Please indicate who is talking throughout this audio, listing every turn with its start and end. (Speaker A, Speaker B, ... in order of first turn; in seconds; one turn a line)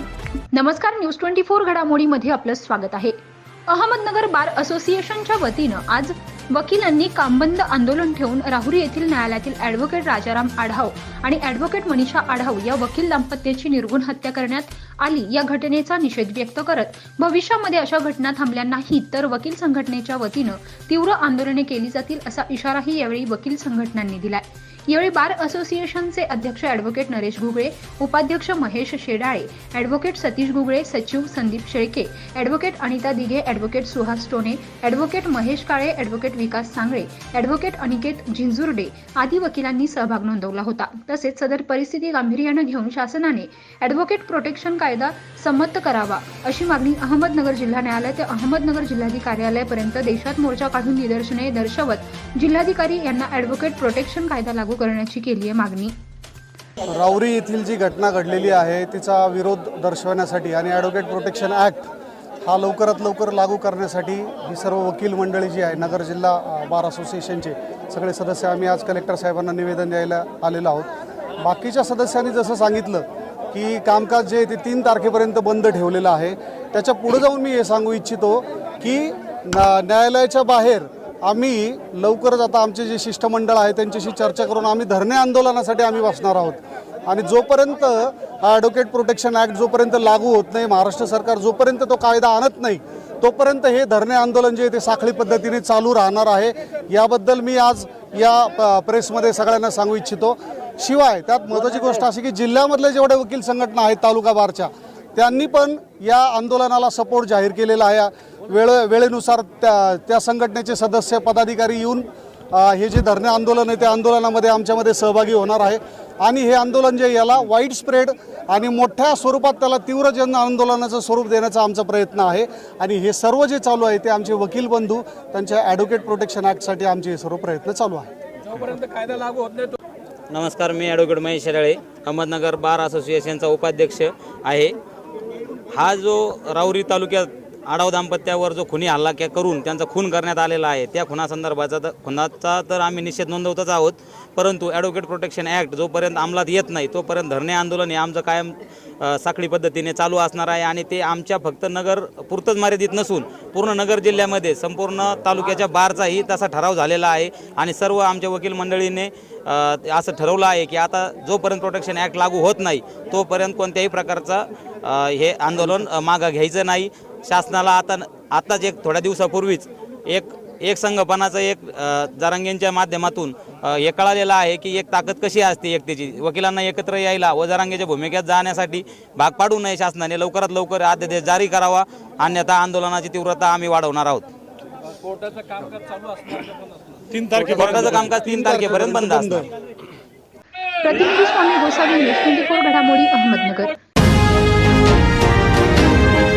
Speaker A: 0.5-55.9
Speaker B: 56.9-61.9
Speaker B: 62.5-128.1
Speaker C: 128.5-129.8
Speaker D: 130.3-134.8
Speaker D: 135.7-184.3
Speaker C: 185.0-187.2
Speaker D: 187.1-189.5
Speaker B: 187.3-189.5
Speaker A: 190.8-193.8